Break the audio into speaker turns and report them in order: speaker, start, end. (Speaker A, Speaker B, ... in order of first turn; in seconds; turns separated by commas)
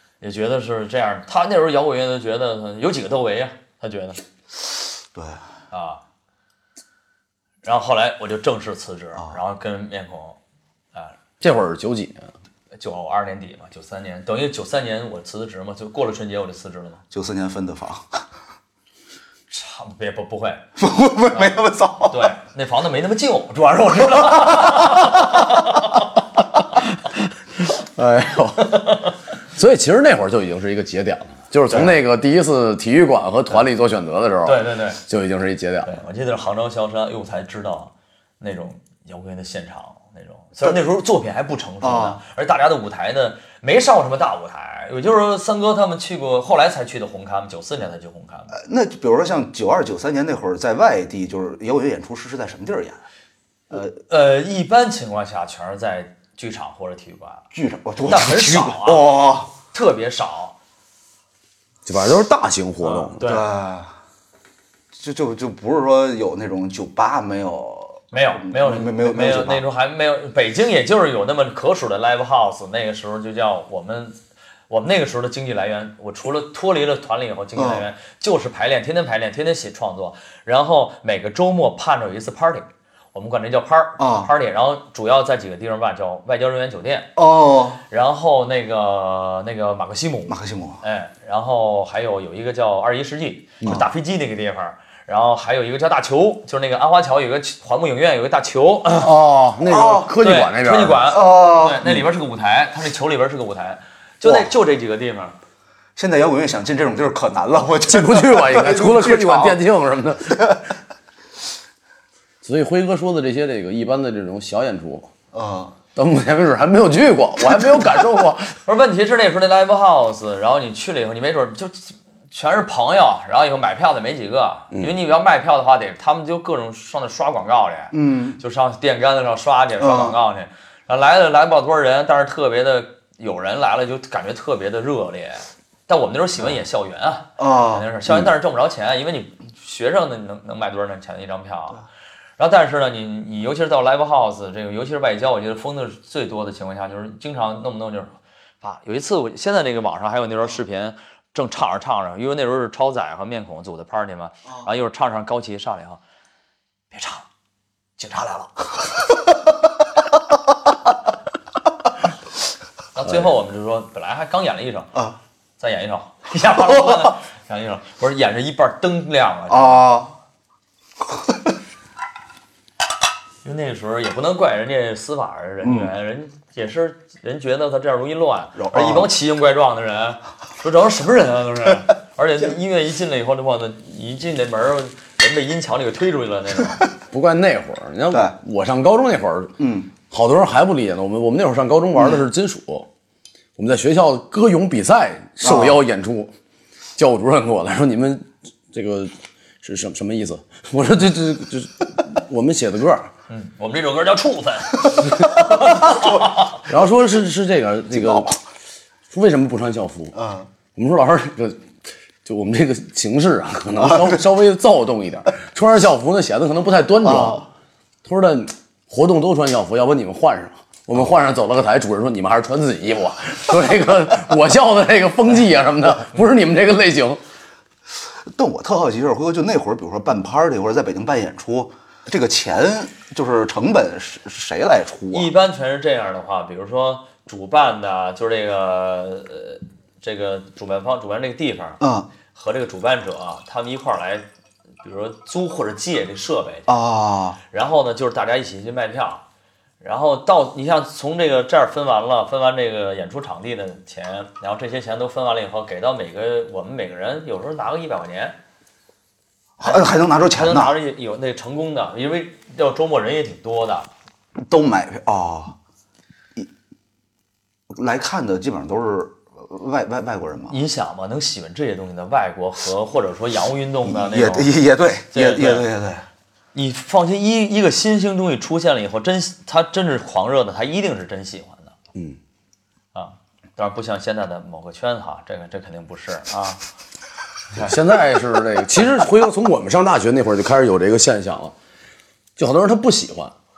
Speaker A: 0.2-4.2, Speaker B: 5.1-5.4, Speaker A: 5.7-6.0, Speaker A: 7.6-10.4, Speaker C: 11.4-12.3, Speaker A: 12.7-17.0, Speaker B: 17.1-18.2, Speaker A: 19.5-20.6, Speaker B: 20.8-22.3, Speaker A: 22.1-26.1, Speaker C: 27.6-36.0, Speaker A: 28.6-29.1, Speaker A: 34.4-35.0, Speaker A: 35.9-48.5, Speaker B: 41.8-42.2, Speaker B: 48.5-53.0, Speaker A: 54.1-57.5, Speaker B: 57.5-59.5, Speaker A: 58.1-59.1, Speaker A: 59.7-60.5, Speaker C: 61.9-63.2, Speaker A: 62.8-63.5, Speaker B: 63.2-63.9, Speaker B: 65.0-69.6, Speaker A: 68.1-74.2, Speaker A: 74.7-87.1, Speaker B: 77.6-77.9, Speaker B: 84.0-84.3, Speaker B: 87.2-87.8, Speaker A: 87.9-99.1, Speaker B: 90.3-90.8, Speaker C: 98.9-101.0, Speaker B: 99.7-100.1, Speaker A: 100.2-105.3, Speaker B: 101.1-102.0, Speaker B: 104.2-104.5, Speaker B: 106.0-109.6, Speaker C: 107.9-110.7, Speaker C: 112.4-115.1, Speaker B: 115.3-115.8, Speaker C: 116.0-118.5, Speaker A: 118.7-141.8, Speaker B: 127.9-128.4, Speaker B: 129.8-130.2, Speaker B: 137.4-137.9, Speaker A: 142.4-156.0, Speaker A: 156.9-157.3, Speaker A: 158.0-158.7, Speaker A: 162.9-164.9, Speaker A: 165.6-169.9, Speaker B: 169.5-170.1, Speaker A: 173.4-186.9, Speaker B: 175.6-175.9, Speaker B: 178.6-179.1, Speaker C: 187.1-189.6, Speaker B: 189.6-189.9, Speaker C: 190.1-192.9, Speaker C: 193.6-196.3, Speaker B: 195.4-195.8, Speaker C: 197.0-203.1, Speaker A: 203.3-206.6, Speaker C: 206.7-208.4, Speaker B: 208.0-208.3, Speaker C: 209.1-210.2, Speaker B: 210.2-210.5, Speaker C: 210.8-211.7, Speaker C: 212.2-217.5, Speaker B: 213.8-214.1, Speaker B: 217.0-217.5, Speaker C: 218.1-227.2, Speaker B: 228.3-235.3, Speaker A: 235.1-244.3, Speaker B: 241.8-242.1, Speaker A: 244.8-246.7, Speaker B: 246.7-247.4, Speaker A: 247.5-249.2, Speaker A: 249.8-258.4, Speaker B: 259.6-260.8, Speaker A: 259.6-263.9, Speaker B: 264.5-265.6, Speaker B: 267.7-270.6, Speaker A: 270.5-274.5, Speaker B: 273.9-276.1, Speaker A: 275.1-275.7, Speaker A: 276.5-281.8, Speaker A: 282.9-286.6, Speaker C: 287.6-291.5, Speaker C: 292.4-293.3